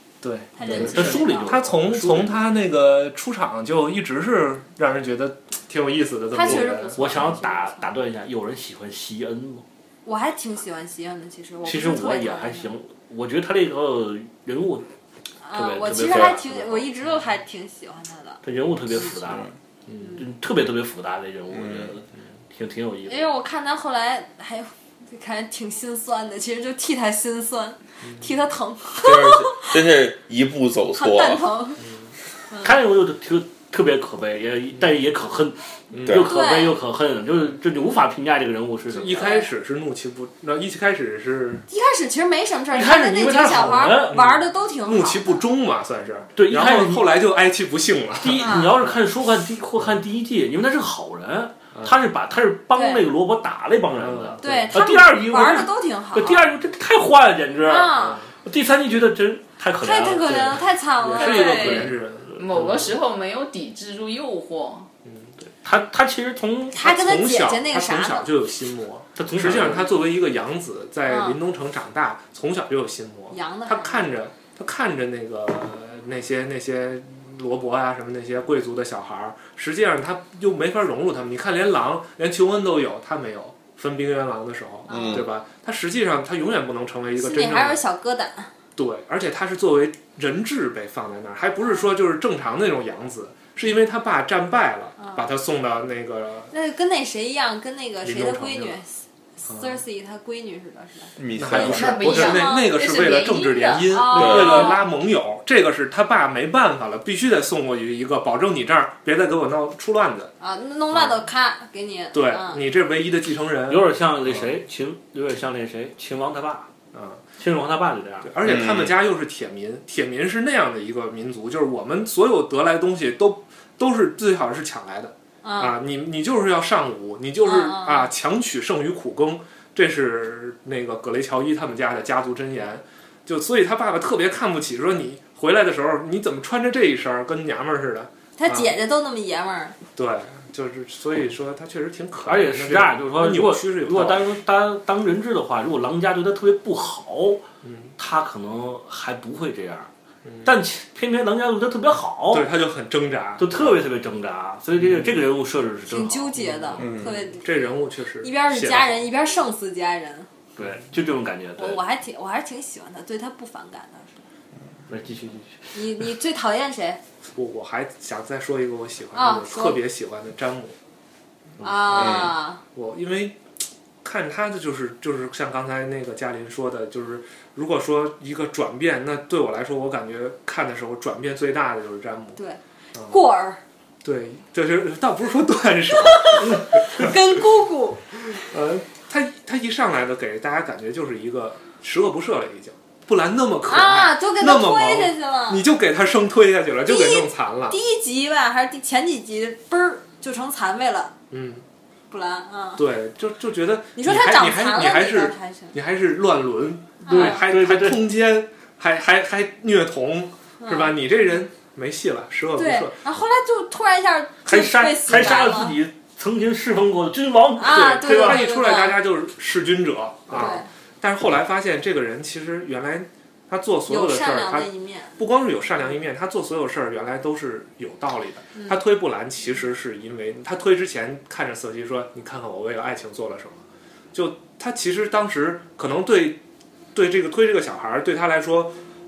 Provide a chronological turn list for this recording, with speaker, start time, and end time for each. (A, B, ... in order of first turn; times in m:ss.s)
0:00.2-0:07.3 A
0:00.6-0:01.6 B
0:00.7-0:02.4 C
0:06.3-0:07.9 B
0:06.5-0:09.6 C
0:10.0-0:12.7 B
0:11.6-0:14.9 C
0:15.4-0:18.4 B
0:15.5-0:16.9 C
0:18.4-0:19.5 C
0:19.9-0:20.2 A
0:20.0-0:20.2 B
0:20.2-0:23.3 C
0:21.5-0:21.9 D
0:23.1-0:29.8 B
0:29.0-0:31.5 D
0:30.9-0:31.8 B
0:31.8-0:32.1 A
0:32.6-0:39.4 C
0:35.9-0:36.2 A
0:36.1-0:36.8 B
0:38.9-0:41.6 A
0:41.7-0:45.4 B
0:42.7-0:44.2 C
0:43.3-0:49.0 A
0:46.4-0:47.1 C
0:48.2-0:57.9 C
0:48.4-0:48.8 B
0:52.7-0:53.1 B
0:53.9-0:54.8 A
0:54.4-0:56.5 B
0:57.6-0:58.2 B
0:58.0-0:58.3 A
0:58.4-1:02.0 C
0:59.8-1:01.9 B
1:00.3-1:03.0 A
1:02.4-1:04.9 E
1:05.0-1:05.3 A
1:05.6-1:06.8 C
1:06.7-1:08.3 B
1:06.8-1:27.8 A
1:09.2-1:10.0 C
1:11.1-1:11.4 B
1:13.3-1:14.1 B
1:24.9-1:25.2 B
1:24.9-1:25.3 D
1:27.2-1:28.5 B
1:28.8-1:36.5 A
1:36.5-1:42.7 B
1:38.0-1:38.8 A
1:39.5-1:39.8 A
1:41.2-1:42.2 D
1:41.3-1:50.3 A
1:41.5-1:44.0 E
1:43.9-1:44.9 B
1:44.2-1:44.6 D
1:50.4-1:52.6 B
1:50.9-1:51.2 A
1:52.1-1:54.5 A
1:53.7-1:56.7 C
1:56.9-1:57.2 A
1:57.4-1:58.3 C
1:58.2-2:18.8 A
1:58.4-1:59.0 D
2:05.4-2:05.8 B
2:07.4-2:08.1 B
2:18.4-2:19.8 B
2:20.0-2:24.3 A
2:22.2-2:27.4 C
2:27.6-2:27.9 A
2:28.0-2:29.9 C
2:30.2-2:30.5 A
2:30.4-2:32.5 C
2:32.3-2:33.8 A
2:33.4-2:36.3 C
2:35.9-2:40.3 B
2:36.3-2:39.1 A
2:36.8-2:37.1 D
2:40.6-2:41.8 C
2:41.6-2:44.2 B
2:44.9-2:45.7 C
2:45.7-2:47.0 B
2:47.4-2:50.8 A
2:49.1-2:49.8 B
2:51.6-2:52.6 B
2:51.9-2:52.2 A
2:51.9-2:52.3 D
2:52.7-2:53.4 A
2:54.0-3:02.4 A
3:02.4-3:03.6 B
3:03.0-3:03.2 A
3:04.0-3:07.2 A
3:06.0-3:08.0 B
3:08.4-3:17.8 A
3:13.6-3:15.6 B
3:16.9-3:21.1 B
3:21.3-3:21.6 A
3:22.1-3:22.8 B
3:22.8-3:33.0 A
3:24.0-3:25.7 B
3:27.1-3:27.4 B
3:27.1-3:28.1 C
3:30.6-3:31.0 B
3:32.6-3:35.8 B
3:34.5-3:38.5 C
3:37.6-3:39.0 B
3:37.7-3:53.6 A
3:40.3-3:40.7 B
3:43.9-3:45.2 B
3:48.6-3:48.8 B
3:54.1-3:56.4 A
3:56.9-3:58.8 A